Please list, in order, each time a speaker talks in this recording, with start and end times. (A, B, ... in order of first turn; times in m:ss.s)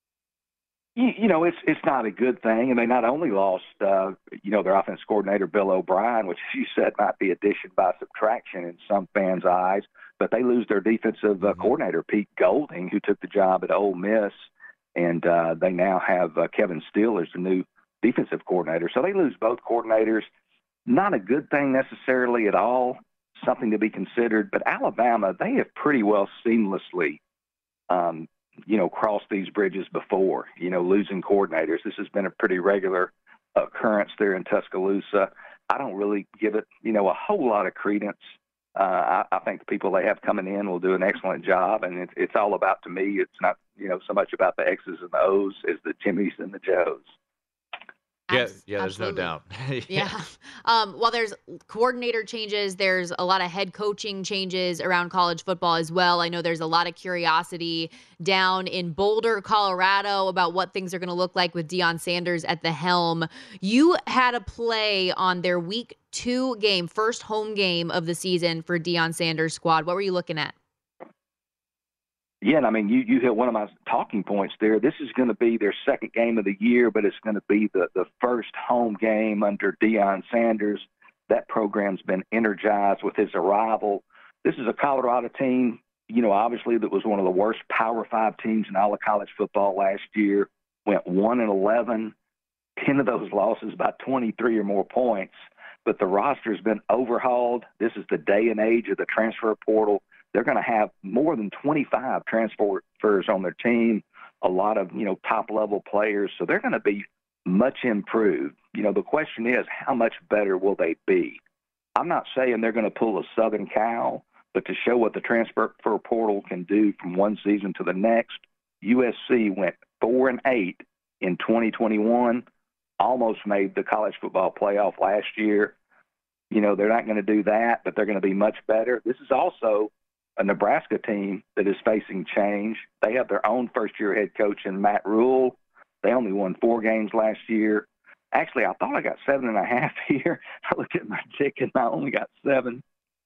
0:01.0-0:14.4 A
0:11.4-0:11.7 B
0:14.9-0:20.3 A
0:20.9-0:27.2 A
0:27.9-0:38.2 A
0:38.8-0:47.1 A
0:48.3-0:49.3 C
0:48.3-0:50.1 B
0:49.9-1:10.5 C
1:12.4-1:32.1 A
1:32.8-1:35.3 A
1:35.8-1:51.4 A
1:52.0-2:02.4 A
2:03.0-2:05.7 A
2:06.5-2:22.8 A